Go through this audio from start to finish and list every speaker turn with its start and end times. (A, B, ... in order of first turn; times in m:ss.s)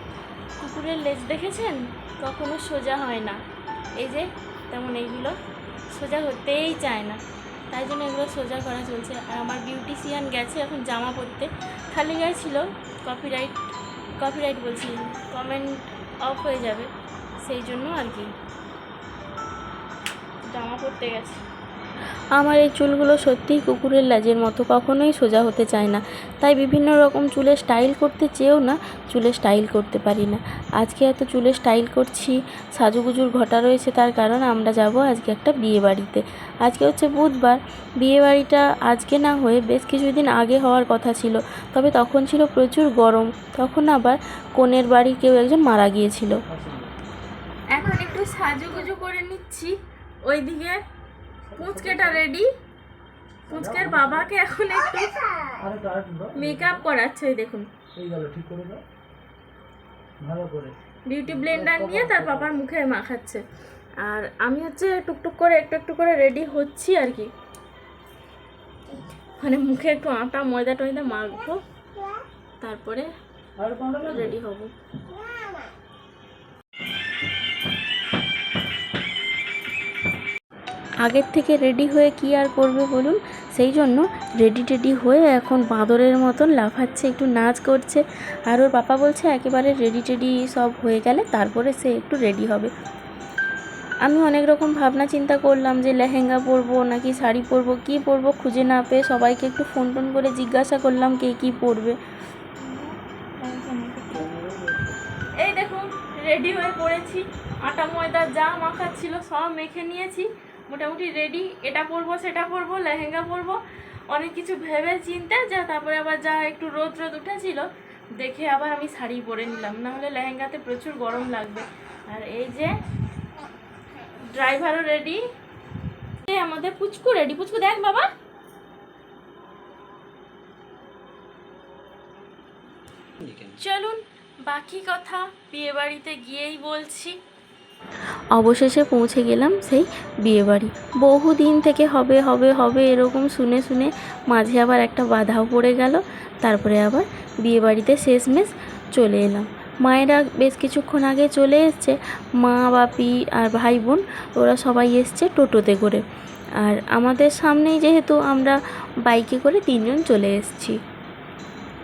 0:00.6-0:03.4 A
0:04.0-0:05.4 A
0:06.0-0:13.6 A
0:14.2-0:18.3 A
0:20.5-0:21.4 A
0:22.4-0:46.4 A
0:46.5-0:46.9 B
0:47.7-0:50.8 A
0:51.5-0:52.2 B
0:51.6-0:52.5 A
0:53.5-0:55.3 A
0:53.5-0:54.3 B
0:55.6-0:56.8 B
0:56.4-0:57.7 A
0:58.0-0:58.8 B
1:00.2-1:02.5 B
1:01.1-1:03.4 A
1:04.0-1:07.3 A
1:09.4-1:11.6 A
1:12.6-1:13.1 A
1:13.6-1:14.3 B
1:14.0-1:14.7 A
1:21.0-1:32.7 A
1:34.0-1:42.0 A
1:42.6-1:44.3 A
1:44.2-1:44.9 B
1:45.4-2:02.7 A
2:04.3-2:05.2 A
2:06.2-2:08.1 A
2:13.5-2:17.2 A
2:18.3-2:36.0 A
2:36.6-2:40.8 A